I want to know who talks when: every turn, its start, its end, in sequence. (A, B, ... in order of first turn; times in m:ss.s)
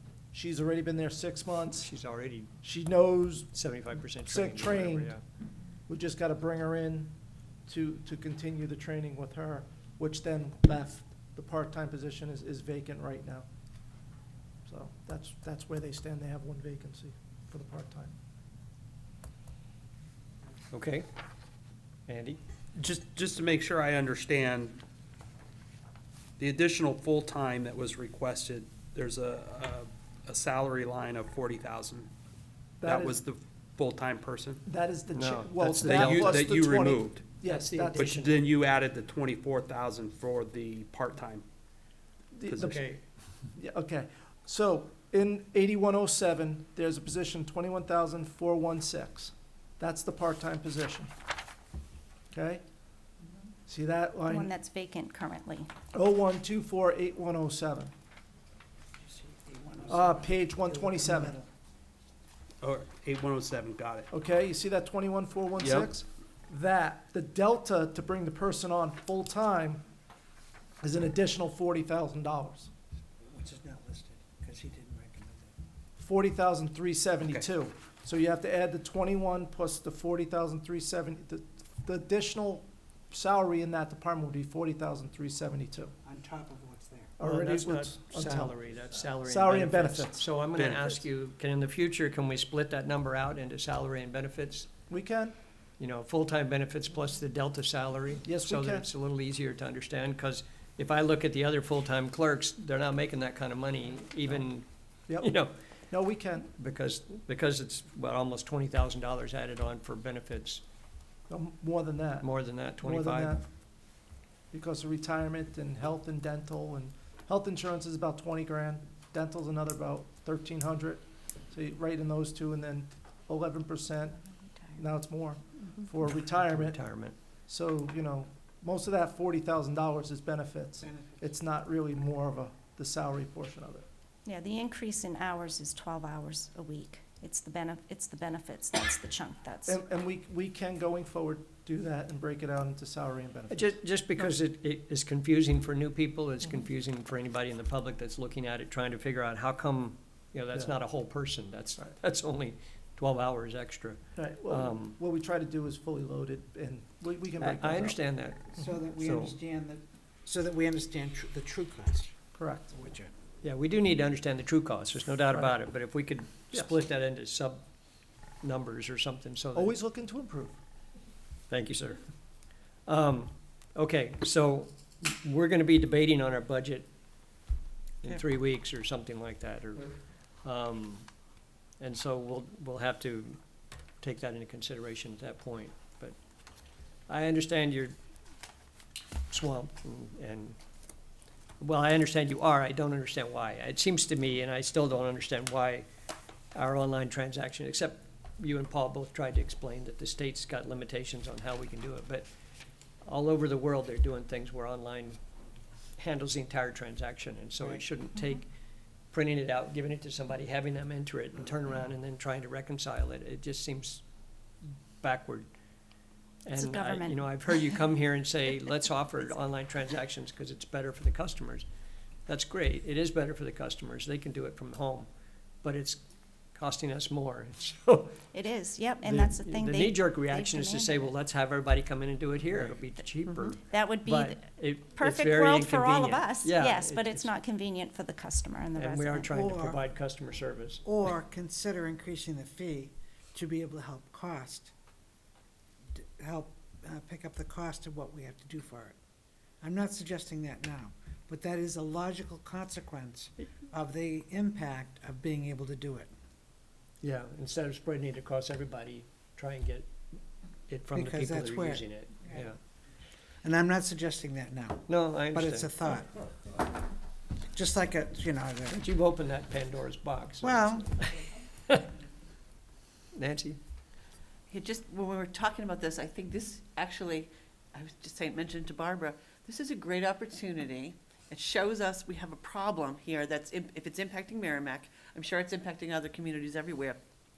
0:00.3-0:01.9 A
0:01.8-0:02.5 B
0:02.6-0:03.5 A
0:03.5-0:05.2 B
0:04.2-0:05.2 A
0:05.9-0:07.1 A
0:07.7-0:13.5 A
0:14.6-0:18.1 A
0:20.7-0:21.0 B
0:22.1-0:22.4 B
0:22.8-0:24.8 C
0:26.4-0:32.1 C
0:32.8-0:33.2 A
0:32.8-0:34.6 C
0:34.6-0:38.2 A
0:35.1-0:36.4 B
0:35.8-0:37.4 C
0:37.4-0:38.4 B
0:37.9-0:41.4 C
0:42.3-0:42.8 A
0:42.5-0:43.0 C
0:43.6-0:51.1 A
0:52.3-0:52.6 A
0:53.7-0:54.5 A
0:54.3-0:55.7 D
0:55.9-0:57.9 A
0:59.0-1:01.5 E
0:59.9-1:01.4 A
1:02.6-1:04.1 C
1:04.1-1:09.8 A
1:05.6-1:05.9 C
1:10.8-1:12.7 A
1:13.3-1:15.5 E
1:16.0-1:25.9 A
1:26.0-1:27.1 E
1:27.2-1:28.6 A
1:27.2-1:34.7 B
1:29.2-1:30.2 A
1:30.5-1:31.1 C
1:34.9-1:35.3 A
1:35.8-1:45.5 B
1:38.2-1:38.9 A
1:45.1-1:45.3 A
1:45.9-1:46.5 A
1:46.6-1:50.6 B
1:51.3-1:53.4 A
1:52.2-1:53.4 B
1:54.5-2:04.2 A
2:04.7-2:06.8 A
2:06.1-2:07.1 B
2:07.5-2:13.8 A
2:10.9-2:11.2 E
2:14.2-2:19.8 D
2:19.6-2:24.3 A
2:23.5-2:35.0 B
2:34.2-2:38.0 A
2:37.4-2:39.4 B
2:38.6-2:42.1 E
2:42.3-2:42.7 A
2:42.7-2:43.1 E
2:43.4-2:47.6 B
2:45.3-2:45.6 A
2:48.4-2:49.8 B
2:49.5-2:50.6 A
2:51.5-2:52.0 B
2:52.8-2:57.3 B
2:58.0-2:59.9 B
3:00.4-3:01.1 B
3:01.8-3:03.4 B
3:04.0-3:06.2 B
3:07.1-3:08.0 B
3:09.3-3:10.6 B
3:11.6-3:15.9 B
3:16.5-3:22.3 B
3:23.0-3:25.2 B
3:26.0-3:28.4 B
3:29.1-3:34.0 B
3:35.0-3:35.5 B
3:36.4-3:41.7 B
3:36.5-3:37.8 D
3:42.3-3:45.1 B
3:45.6-3:48.2 B
3:48.3-3:51.0 D
3:49.0-3:57.3 B
3:53.7-3:59.3 D
3:58.7-4:00.8 B
3:59.3-3:59.8 E
4:00.8-4:04.7 E
4:05.9-4:09.0 E
4:09.6-4:16.1 E
4:17.0-4:20.0 B
4:20.7-4:22.6 B
4:20.9-4:21.8 E
4:23.4-4:26.2 E
4:24.9-4:25.7 B
4:27.5-4:28.8 E
4:28.7-4:31.8 B
4:30.4-4:30.9 E
4:33.1-4:33.6 B
4:34.5-4:47.0 F